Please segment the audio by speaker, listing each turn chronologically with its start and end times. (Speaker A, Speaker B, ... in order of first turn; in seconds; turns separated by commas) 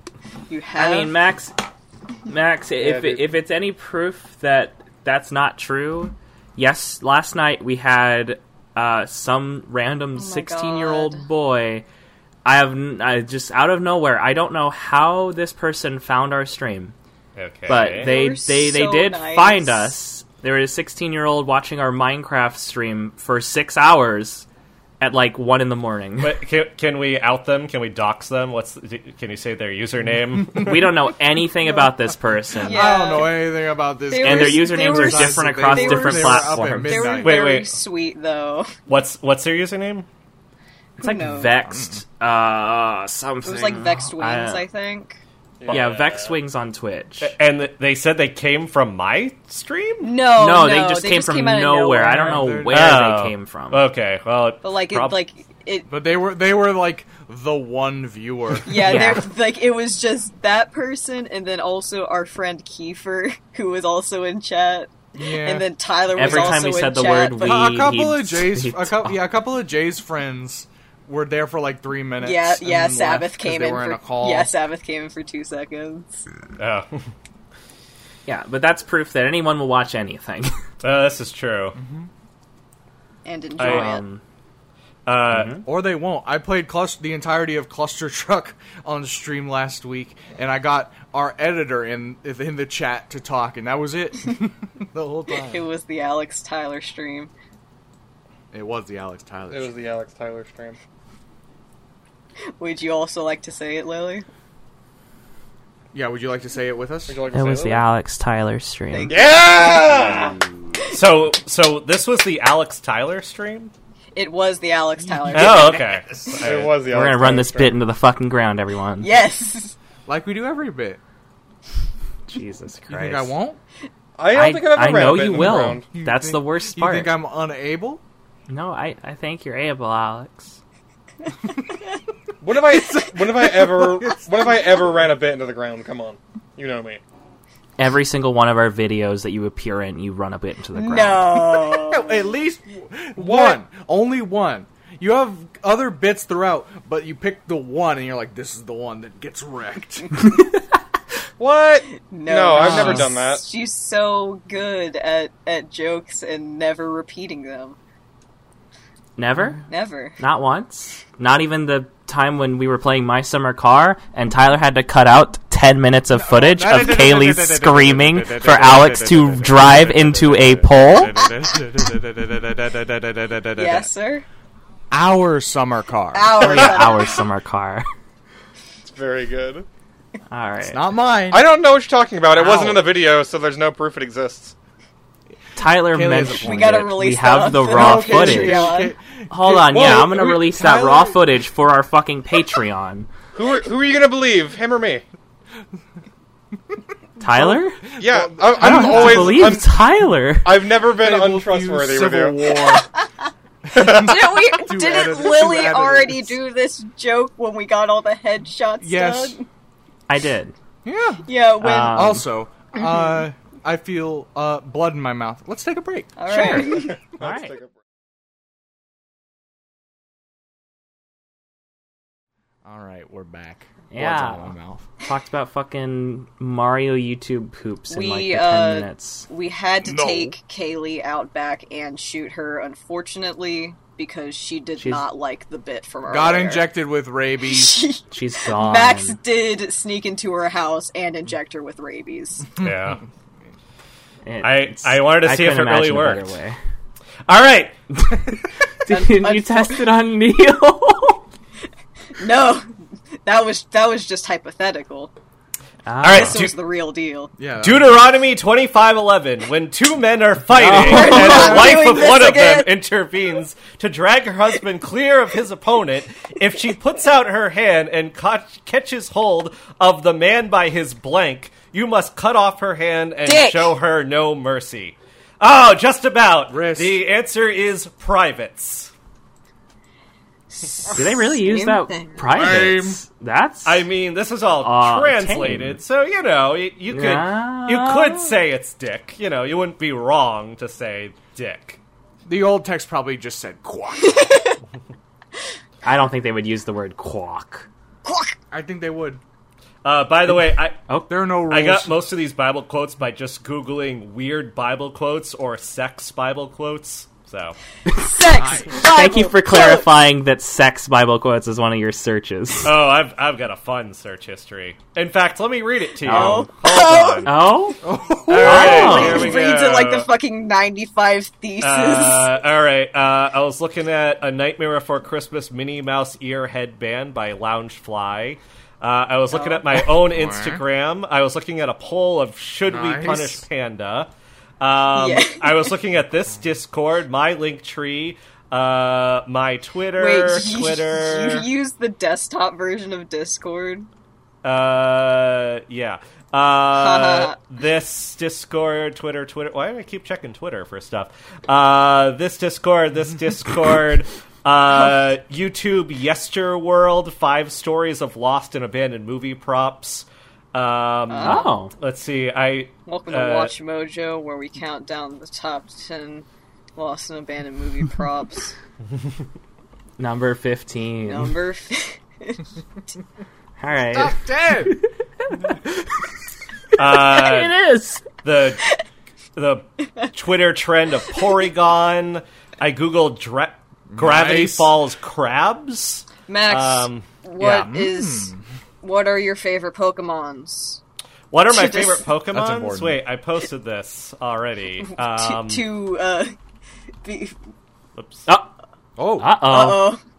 Speaker A: 0.5-1.2, Speaker B: 0.8-1.6, Speaker B: 2.3-11.8, Speaker C: 2.8-3.2, Speaker A: 10.2-11.2, Speaker B: 12.4-16.9, Speaker D: 17.3-18.1, Speaker B: 17.7-24.4, Speaker A: 17.8-19.9, Speaker B: 25.0-26.4, Speaker D: 26.2-30.9, Speaker B: 30.6-32.9, Speaker A: 32.6-33.4, Speaker E: 32.7-37.4, Speaker A: 34.1-38.7, Speaker B: 34.2-37.1, Speaker D: 37.2-37.7, Speaker D: 38.9-40.0, Speaker A: 41.0-41.5, Speaker B: 41.0-44.6, Speaker E: 41.7-42.0, Speaker A: 43.4-45.2, Speaker C: 45.6-46.3, Speaker B: 45.7-47.3, Speaker D: 45.7-45.9, Speaker D: 47.2-50.1, Speaker A: 50.0-52.4, Speaker B: 50.4-53.9, Speaker E: 52.0-53.0, Speaker D: 52.7-55.2, Speaker A: 54.6-55.9, Speaker E: 55.9-59.1, Speaker A: 58.6-67.7, Speaker B: 58.8-59.3, Speaker E: 65.1-65.7, Speaker B: 66.1-69.2, Speaker E: 66.2-66.7, Speaker E: 67.4-74.5, Speaker A: 72.2-76.2, Speaker D: 76.6-77.1, Speaker B: 78.3-80.5, Speaker D: 80.8-81.8, Speaker E: 81.7-82.1, Speaker A: 83.2-84.0, Speaker D: 83.6-84.0, Speaker B: 83.6-84.2, Speaker D: 85.0-85.6, Speaker B: 85.3-85.6, Speaker E: 85.6-95.6, Speaker A: 95.5-97.3, Speaker E: 98.5-99.7, Speaker C: 99.5-100.8, Speaker A: 102.6-104.2, Speaker E: 105.9-107.2, Speaker C: 107.1-107.8, Speaker B: 107.3-109.1, Speaker A: 108.9-110.2, Speaker C: 109.1-110.3, Speaker D: 110.9-113.7, Speaker A: 114.1-115.8, Speaker E: 115.0-116.4, Speaker D: 115.3-116.8, Speaker C: 116.4-117.8, Speaker B: 116.9-119.1, Speaker A: 119.0-119.7, Speaker E: 120.0-121.0, Speaker B: 122.3-123.3, Speaker E: 122.9-123.6, Speaker C: 124.2-125.9, Speaker B: 124.3-127.1, Speaker E: 125.0-128.0, Speaker B: 128.5-130.6, Speaker C: 132.4-137.0, Speaker E: 132.7-134.4, Speaker B: 137.8-141.4, Speaker A: 140.7-142.2, Speaker E: 141.7-150.1, Speaker C: 143.2-143.6, Speaker C: 151.4-153.4, Speaker A: 151.9-157.8, Speaker E: 152.5-153.1, Speaker B: 159.2-159.6, Speaker A: 159.7-160.2, Speaker B: 160.2-171.2, Speaker E: 166.1-173.9, Speaker A: 173.6-174.2, Speaker E: 174.9-176.8, Speaker A: 176.1-177.2, Speaker B: 176.4-177.8, Speaker C: 178.8-179.7, Speaker B: 180.3-180.8, Speaker E: 180.6-181.4, Speaker C: 181.3-184.5, Speaker B: 182.3-182.8, Speaker B: 185.6-188.8, Speaker E: 185.8-187.0, Speaker A: 186.4-188.9, Speaker E: 187.5-191.2, Speaker B: 189.3-193.1, Speaker C: 193.3-195.0, Speaker E: 196.7-199.6, Speaker B: 197.2-197.8, Speaker C: 198.0-199.8, Speaker B: 198.6-200.6, Speaker C: 200.4-202.4, Speaker E: 200.9-202.9, Speaker A: 202.6-202.9, Speaker E: 203.7-206.4, Speaker C: 203.7-204.2, Speaker A: 203.8-209.4, Speaker E: 208.8-209.4, Speaker B: 210.1-210.5, Speaker E: 210.8-216.8, Speaker A: 211.2-212.1, Speaker B: 211.6-212.3, Speaker A: 216.2-217.0, Speaker B: 216.3-217.6, Speaker C: 216.8-217.8, Speaker E: 222.6-224.8, Speaker B: 223.9-224.5, Speaker B: 225.0-229.3, Speaker A: 227.9-236.7, Speaker E: 229.8-230.3, Speaker B: 234.8-235.1, Speaker E: 236.1-237.8, Speaker A: 237.5-242.5, Speaker B: 238.1-239.2, Speaker D: 242.6-243.0, Speaker E: 242.6-243.0, Speaker B: 244.2-246.6, Speaker D: 244.4-246.3, Speaker D: 247.3-247.8, Speaker B: 247.9-251.2, Speaker A: 248.9-249.8, Speaker A: 252.2-252.7, Speaker A: 253.2-255.1, Speaker B: 255.8-256.5, Speaker D: 256.0-256.6, Speaker A: 256.1-257.3, Speaker E: 257.4-258.0, Speaker D: 257.6-278.9, Speaker B: 260.5-261.7, Speaker A: 260.8-262.7, Speaker E: 260.9-261.9, Speaker A: 273.2-273.7, Speaker E: 276.5-277.0, Speaker A: 280.5-282.2, Speaker B: 280.9-283.9, Speaker E: 282.3-283.0, Speaker D: 283.6-291.8, Speaker B: 284.6-285.8, Speaker B: 286.9-288.3, Speaker E: 292.2-294.4, Speaker A: 294.1-294.6, Speaker B: 295.8-297.7, Speaker A: 298.1-298.4, Speaker E: 298.5-299.2, Speaker D: 299.8-300.8, Speaker E: 301.1-302.0, Speaker D: 301.5-307.6, Speaker A: 308.0-309.8, Speaker E: 308.3-308.8, Speaker B: 308.8-312.7, Speaker D: 312.6-317.3, Speaker B: 316.0-316.5, Speaker A: 316.1-317.3, Speaker B: 317.2-317.8, Speaker E: 317.8-319.1, Speaker D: 318.3-320.1, Speaker A: 318.3-322.3, Speaker B: 318.3-319.3, Speaker D: 321.6-334.1, Speaker A: 329.3-329.7, Speaker E: 329.9-330.6, Speaker E: 332.7-333.4, Speaker D: 334.6-341.5, Speaker A: 334.9-335.7, Speaker A: 340.0-343.9, Speaker D: 344.4-363.5, Speaker A: 346.7-347.3, Speaker A: 361.1-361.5, Speaker B: 361.2-361.7, Speaker A: 362.9-368.5, Speaker B: 370.0-371.4, Speaker A: 371.1-372.4, Speaker B: 373.6-376.0, Speaker E: 373.9-374.8, Speaker D: 376.8-377.6, Speaker B: 376.9-378.0, Speaker D: 378.2-378.7, Speaker D: 379.4-387.0, Speaker E: 383.9-384.7, Speaker A: 386.3-390.8, Speaker E: 387.4-388.4, Speaker D: 391.3-395.7, Speaker A: 391.5-392.0, Speaker E: 392.3-393.0, Speaker A: 394.9-396.3, Speaker A: 397.0-397.3, Speaker D: 398.0-398.3, Speaker E: 399.0-399.4, Speaker B: 399.2-399.9, Speaker A: 399.4-400.0